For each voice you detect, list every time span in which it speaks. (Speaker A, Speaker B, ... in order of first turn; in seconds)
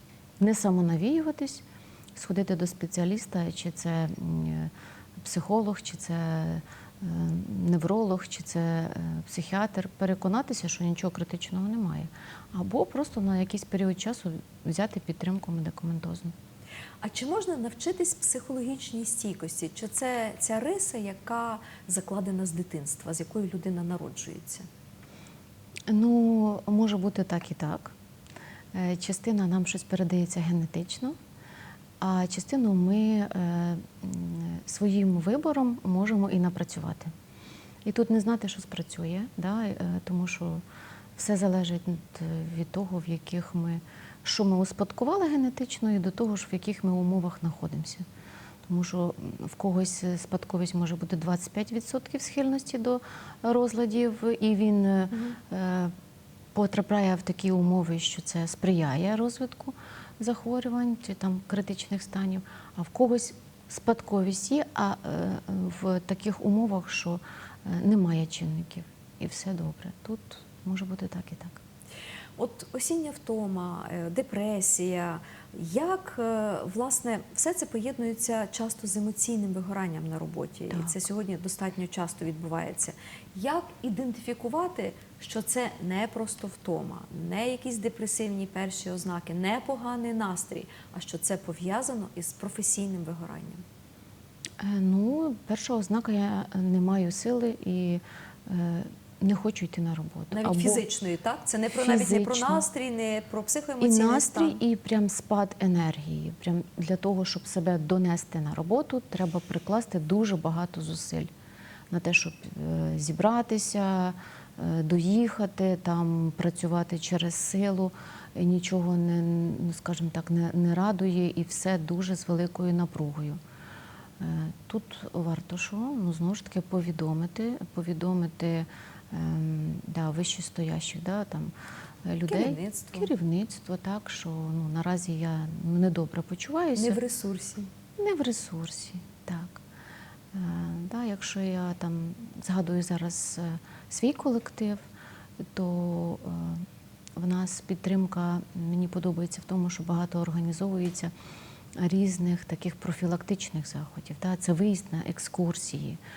Speaker A: 0.4-1.6, 2.1-16.3, 25.9-27.9, 28.7-31.2, 32.0-37.1, 37.9-40.6, 41.2-48.0, 48.7-55.9, 56.5-71.6, 94.6-100.8, 101.7-102.7, 103.8-111.3, 111.9-123.4, 124.2-131.5, 132.1-137.0, 138.0-139.6, 140.3-144.8, 145.5-146.7, 147.2-151.1, 151.8-156.0
Speaker B: 17.0-24.6, 72.4-93.6, 100.3-104.6, 132.3-133.1, 136.8-137.7